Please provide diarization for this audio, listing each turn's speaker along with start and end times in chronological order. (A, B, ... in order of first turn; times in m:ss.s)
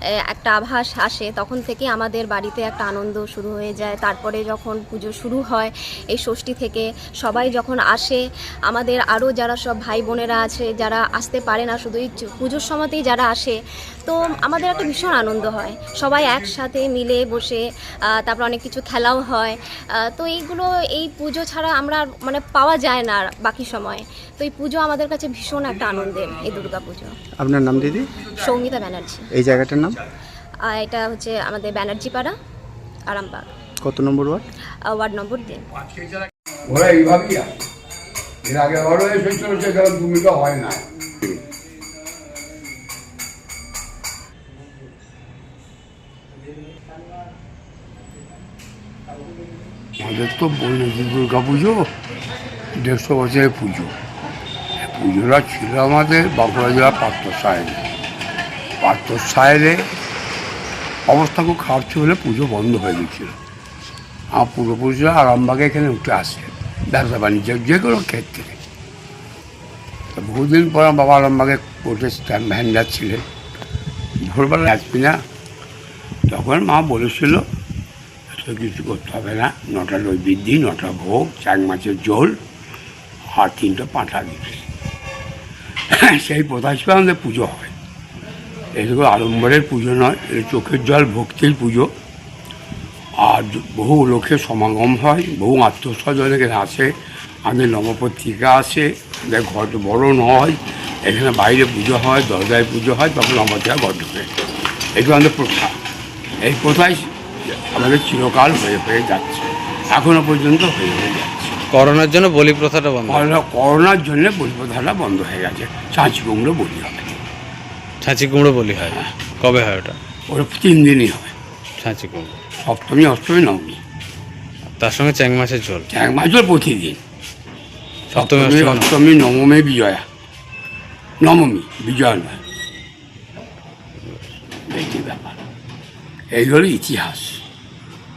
0:00.3-0:27.1 A
0:27.4-0:28.2 B
0:28.3-0:29.2 A
0:29.3-0:30.0 B
0:30.7-0:32.3 A
0:33.1-0:33.5 A
0:33.8-0:34.5 B
0:34.9-0:35.6 A
0:36.7-0:37.5 C
0:38.4-0:40.8 C
0:50.0-0:51.9 C
0:52.8-0:53.9 C
0:54.8-0:57.8 C
0:58.8-0:59.9 C
1:01.1-1:03.4 C
1:04.3-1:08.6 C
1:10.1-1:13.2 C
1:14.2-1:15.2 C
1:16.3-1:17.5 C
1:18.3-1:22.4 C
1:23.3-1:24.7 C
1:25.9-1:27.7 C
1:28.8-1:31.9 C
1:33.2-1:36.9 C
1:37.4-1:44.3 C
1:45.0-1:45.8 C
1:46.4-1:51.6 C
1:51.7-1:53.3 D
1:53.1-1:57.2 C
1:58.0-2:00.0 D
2:00.3-2:01.3 C
2:01.8-2:02.4 D
2:02.6-2:03.8 C
2:04.8-2:05.9 D
2:05.9-2:07.0 C
2:08.1-2:08.9 D
2:08.1-2:10.0 C
2:11.2-2:12.4 C
2:14.7-2:15.4 C
2:16.3-2:17.4 C